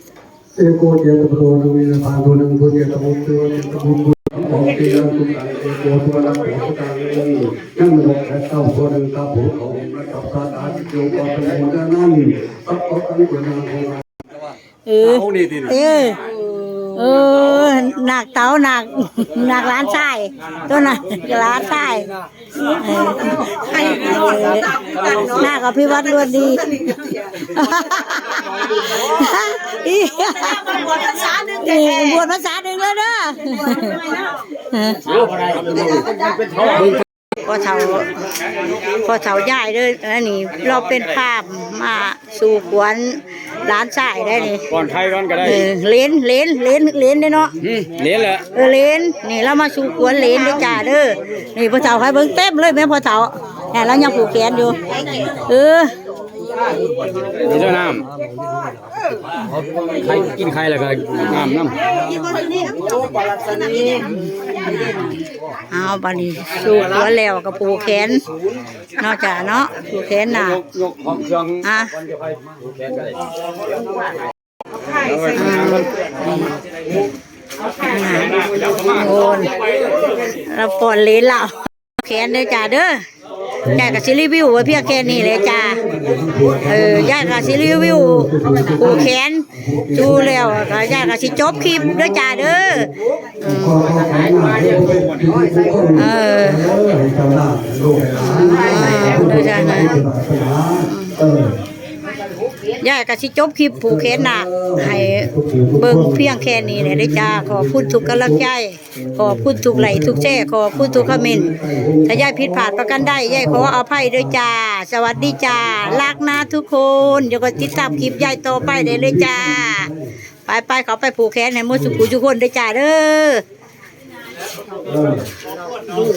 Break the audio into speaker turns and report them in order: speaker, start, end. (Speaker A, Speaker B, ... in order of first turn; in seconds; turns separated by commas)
Speaker A: 0.6-14.0, Speaker B: 14.8-22.1, Speaker A: 15.4-15.7, Speaker B: 22.6-35.0, Speaker C: 35.0-37.0, Speaker B: 36.8-38.1, Speaker B: 38.8-44.7, Speaker C: 44.7-45.6, Speaker B: 45.4-47.5, Speaker C: 47.6-48.4, Speaker B: 48.5-54.8, Speaker A: 54.8-55.4, Speaker B: 55.3-55.9, Speaker A: 56.5-62.5, Speaker C: 57.4-58.0, Speaker C: 59.8-61.8, Speaker B: 63.7-64.2, Speaker B: 65.7-68.2, Speaker B: 69.0-70.6, Speaker C: 70.3-73.2, Speaker B: 71.6-71.9, Speaker C: 75.0-75.8, Speaker B: 75.3-76.5, Speaker B: 77.8-79.5, Speaker B: 80.3-83.0, Speaker A: 83.6-84.0, Speaker B: 83.7-85.8, Speaker A: 84.5-92.9, Speaker B: 86.7-93.8, Speaker A: 93.4-101.6, Speaker B: 96.0-96.7, Speaker B: 98.2-100.0, Speaker B: 100.8-101.1, Speaker B: 102.8-111.5, Speaker A: 103.7-114.4, Speaker B: 112.0-119.9, Speaker A: 115.1-116.5, Speaker A: 117.1-120.1, Speaker B: 120.5-123.4, Speaker A: 121.7-122.1, Speaker A: 124.8-125.2